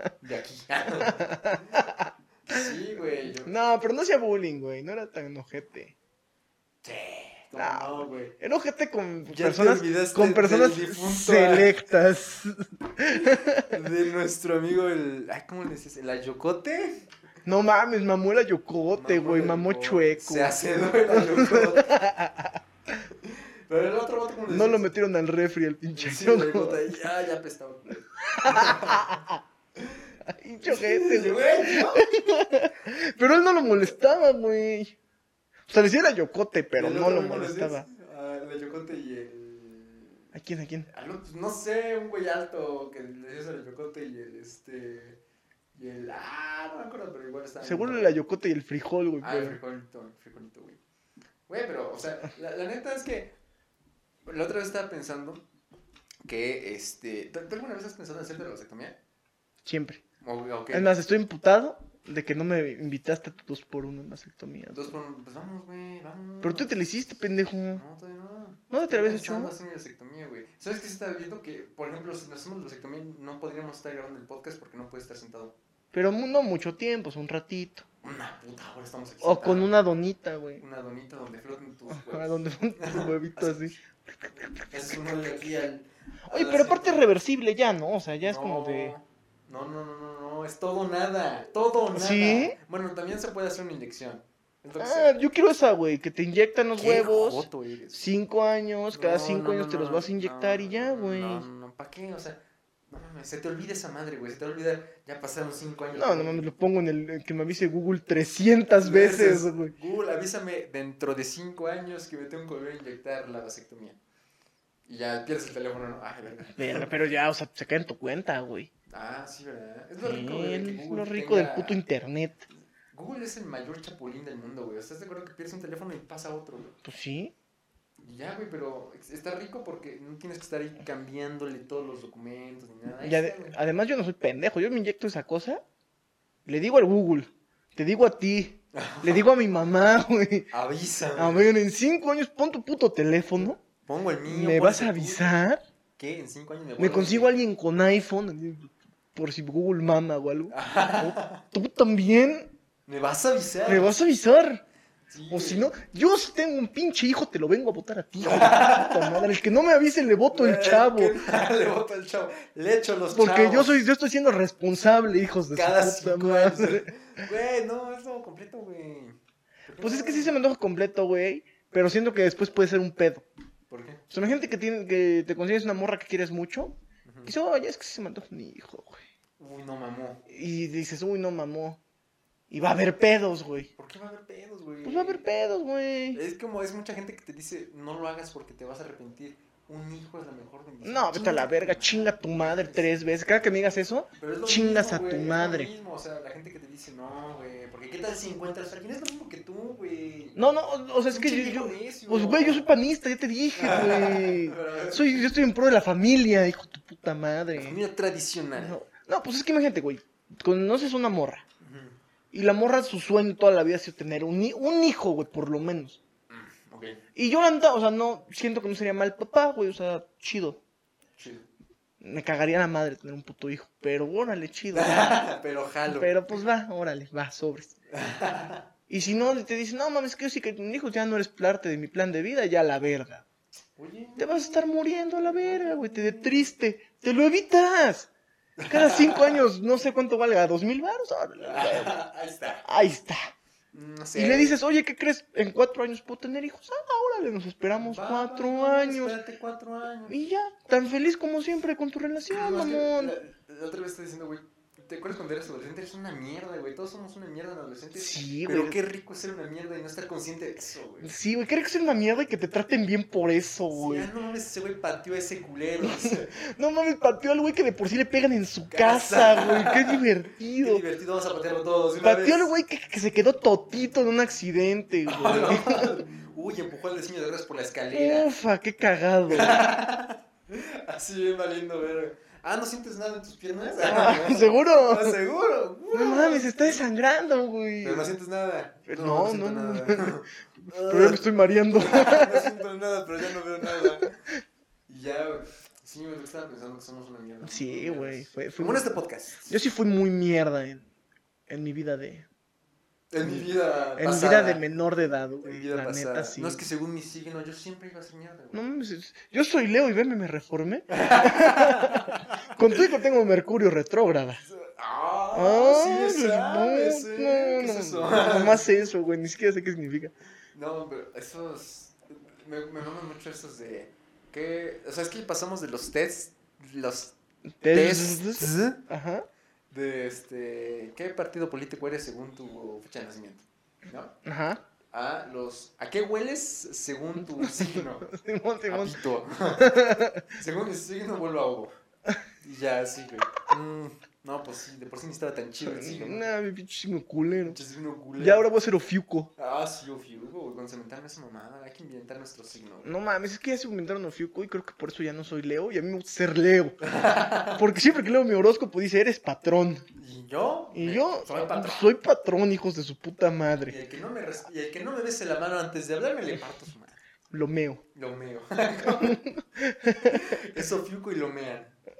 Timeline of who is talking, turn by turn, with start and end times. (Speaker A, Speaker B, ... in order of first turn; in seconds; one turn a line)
Speaker A: 0.2-1.8
Speaker B: 1.1-2.7
Speaker A: 2.5-3.5
Speaker B: 3.4-5.9
Speaker A: 6.8-8.3
Speaker B: 7.5-13.8
Speaker A: 9.3-11.7
Speaker A: 13.1-17.1
Speaker B: 17.4-22.6
Speaker A: 18.9-22.0
Speaker A: 23.1-24.9
Speaker B: 24.5-26.9
Speaker A: 25.9-29.2
Speaker B: 28.3-29.4
Speaker A: 29.8-32.5
Speaker B: 30.3-35.0
Speaker B: 35.7-37.9
Speaker A: 36.8-40.3
Speaker B: 40.3-40.9
Speaker A: 40.9-45.2
Speaker A: 45.7-48.1
Speaker B: 47.6-49.6
Speaker A: 49.2-50.8
Speaker A: 51.5-53.4
Speaker A: 54.2-55.4
Speaker A: 56.2-59.0
Speaker B: 59.6-60.0
Speaker A: 60.2-60.9
Speaker B: 60.7-64.9
Speaker A: 64.7-66.8
Speaker B: 66.4-67.8
Speaker A: 67.7-75.5
Speaker B: 68.7-69.5
Speaker B: 75.9-77.8
Speaker A: 78.0-79.8
Speaker B: 79.2-80.6
Speaker A: 80.6-83.7
Speaker B: 81.9-85.2
Speaker A: 84.7-87.0
Speaker B: 86.3-88.9
Speaker A: 88.2-95.1
Speaker B: 91.9-92.5
Speaker B: 94.8-101.5
Speaker A: 96.8-98.1
Speaker A: 98.9-106.5
Speaker B: 105.9-109.7
Speaker A: 108.8-114.0
Speaker A: 114.8-116.9
Speaker B: 116.5-118.7
Speaker A: 118.9-121.8
Speaker B: 120.0-122.4
Speaker A: 122.9-126.8
Speaker B: 126.8-127.3
Speaker A: 128.0-133.6
Speaker B: 133.0-135.6
Speaker B: 136.4-140.5
Speaker A: 138.7-139.3
Speaker A: 140.5-141.5
Speaker B: 141.2-143.6
Speaker A: 143.4-145.4
Speaker B: 144.2-145.6
Speaker A: 146.0-147.3
Speaker B: 146.8-152.5
Speaker A: 150.5-151.4
Speaker A: 152.9-153.9
Speaker B: 153.7-154.6
Speaker A: 155.1-155.7
Speaker B: 155.3-161.2
Speaker A: 158.2-159.2
Speaker A: 160.3-163.8
Speaker B: 163.1-166.9
Speaker A: 165.5-170.3
Speaker B: 169.8-173.2
Speaker A: 173.7-174.0
Speaker B: 174.1-179.0
Speaker A: 177.0-177.3
Speaker A: 179.4-180.2
Speaker B: 180.3-181.8
Speaker B: 182.5-183.7
Speaker A: 183.8-185.2
Speaker B: 184.8-186.2
Speaker A: 186.1-193.0
Speaker B: 190.8-195.7
Speaker A: 194.2-200.4
Speaker B: 200.3-207.8
Speaker A: 201.1-202.7
Speaker A: 203.6-205.3
Speaker A: 207.5-208.8
Speaker B: 208.6-211.4
Speaker A: 211.6-212.0
Speaker B: 212.3-216.0
Speaker A: 216.3-217.0
Speaker B: 217.1-220.6
Speaker A: 221.2-221.5
Speaker B: 222.0-225.0
Speaker A: 224.7-226.4
Speaker B: 225.9-227.8
Speaker A: 227.9-228.7
Speaker B: 228.9-233.2
Speaker A: 233.8-236.3
Speaker B: 234.2-238.1
Speaker A: 238.6-239.4
Speaker B: 238.7-241.9
Speaker A: 241.4-242.7
Speaker B: 242.6-243.2
Speaker A: 243.7-244.6
Speaker B: 244.1-249.2
Speaker A: 247.8-250.2
Speaker B: 250.1-253.2
Speaker A: 252.3-261.1
Speaker B: 257.9-258.8
Speaker B: 261.0-264.1
Speaker A: 263.7-266.3
Speaker B: 265.8-270.8
Speaker A: 268.7-270.1
Speaker A: 270.6-272.5
Speaker B: 272.0-275.9
Speaker A: 275.1-278.3
Speaker B: 277.9-279.6
Speaker A: 279.3-286.8
Speaker B: 283.8-285.2
Speaker B: 285.9-288.1
Speaker A: 287.8-294.2
Speaker B: 288.9-290.1
Speaker B: 290.7-292.5
Speaker B: 293.6-294.0
Speaker A: 294.9-299.6
Speaker B: 297.4-298.9
Speaker B: 299.5-300.9
Speaker B: 301.5-302.3
Speaker A: 303.1-304.6
Speaker B: 303.2-306.6
Speaker A: 305.4-308.6
Speaker B: 308.5-314.4
Speaker A: 310.9-312.8
Speaker A: 314.4-318.8
Speaker B: 315.3-320.1
Speaker A: 320.5-327.2
Speaker B: 327.6-329.3
Speaker A: 327.7-328.8
Speaker A: 329.7-334.1
Speaker B: 334.2-334.6
Speaker A: 334.9-338.1
Speaker B: 337.3-339.0
Speaker A: 338.7-341.7
Speaker B: 339.6-340.3
Speaker A: 342.4-346.2
Speaker B: 345.6-347.6
Speaker A: 347.4-348.5
Speaker B: 348.2-349.3
Speaker A: 349.4-352.9
Speaker B: 352.8-356.8
Speaker A: 356.8-357.7
Speaker B: 357.6-359.9
Speaker A: 359.9-361.9
Speaker B: 360.7-363.8
Speaker A: 363.6-367.0
Speaker B: 367.3-367.8
Speaker A: 367.9-369.2
Speaker B: 368.9-370.4
Speaker A: 370.0-371.7